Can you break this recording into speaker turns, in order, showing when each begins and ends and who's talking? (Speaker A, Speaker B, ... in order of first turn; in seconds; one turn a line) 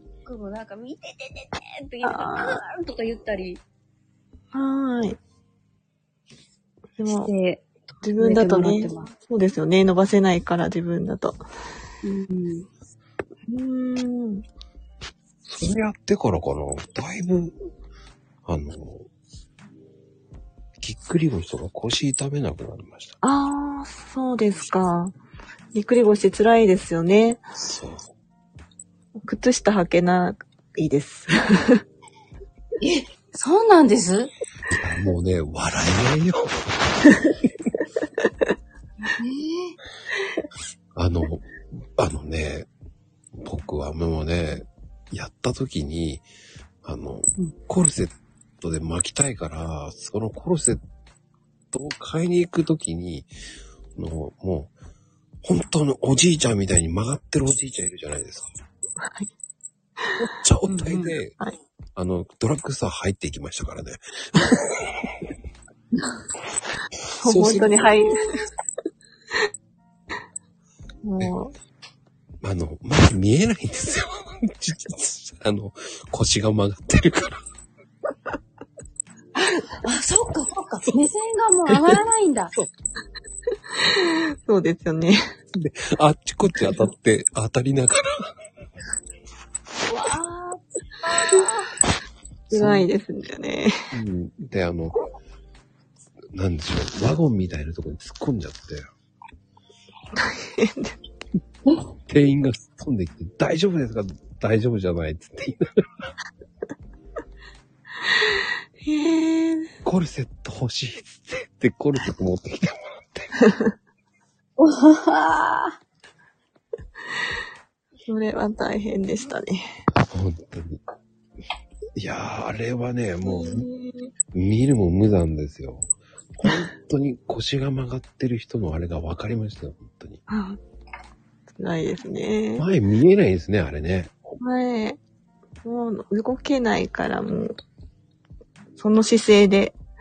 Speaker A: 0.2-3.6
Speaker B: 2.0-2.6
Speaker B: 4.5-5.2
Speaker B: 7.0-7.3
Speaker A: 7.1-7.7
Speaker B: 8.0-11.4
Speaker A: 8.2-9.1
Speaker A: 12.0-12.7
Speaker B: 13.5-14.4
Speaker C: 15.4-17.6
Speaker C: 18.4-19.1
Speaker C: 20.8-23.2
Speaker B: 23.2-25.1
Speaker B: 25.7-27.4
Speaker C: 27.6-28.1
Speaker B: 29.2-31.8
Speaker A: 32.8-34.3
Speaker C: 34.7-36.7
Speaker A: 39.0-39.7
Speaker C: 41.0-42.7
Speaker C: 43.4-46.2
Speaker C: 46.8-50.8
Speaker C: 51.7-53.3
Speaker C: 54.0-54.7
Speaker C: 55.4-58.5
Speaker B: 59.0-59.3
Speaker C: 60.2-61.4
Speaker A: 60.7-61.1
Speaker C: 62.0-65.1
Speaker C: 67.2-67.8
Speaker B: 67.2-68.4
Speaker B: 71.0-71.5
Speaker C: 72.4-77.4
Speaker A: 79.7-82.5
Speaker B: 83.7-85.2
Speaker C: 85.5-88.3
Speaker A: 89.9-91.7
Speaker B: 92.5-93.8
Speaker C: 92.5-92.9
Speaker C: 93.9-95.0
Speaker C: 96.3-98.9
Speaker B: 100.2-101.0
Speaker C: 102.1-106.1
Speaker B: 108.8-109.7
Speaker C: 109.8-113.3
Speaker B: 113.4-113.7
Speaker A: 114.6-115.8
Speaker B: 118.1-119.6
Speaker C: 120.0-120.8
Speaker C: 122.0-123.7
Speaker B: 123.2-124.1
Speaker C: 124.3-130.2
Speaker B: 130.3-130.6
Speaker B: 131.6-132.7
Speaker C: 132.6-134.2
Speaker B: 134.4-135.0
Speaker B: 135.6-137.6
Speaker B: 138.8-139.8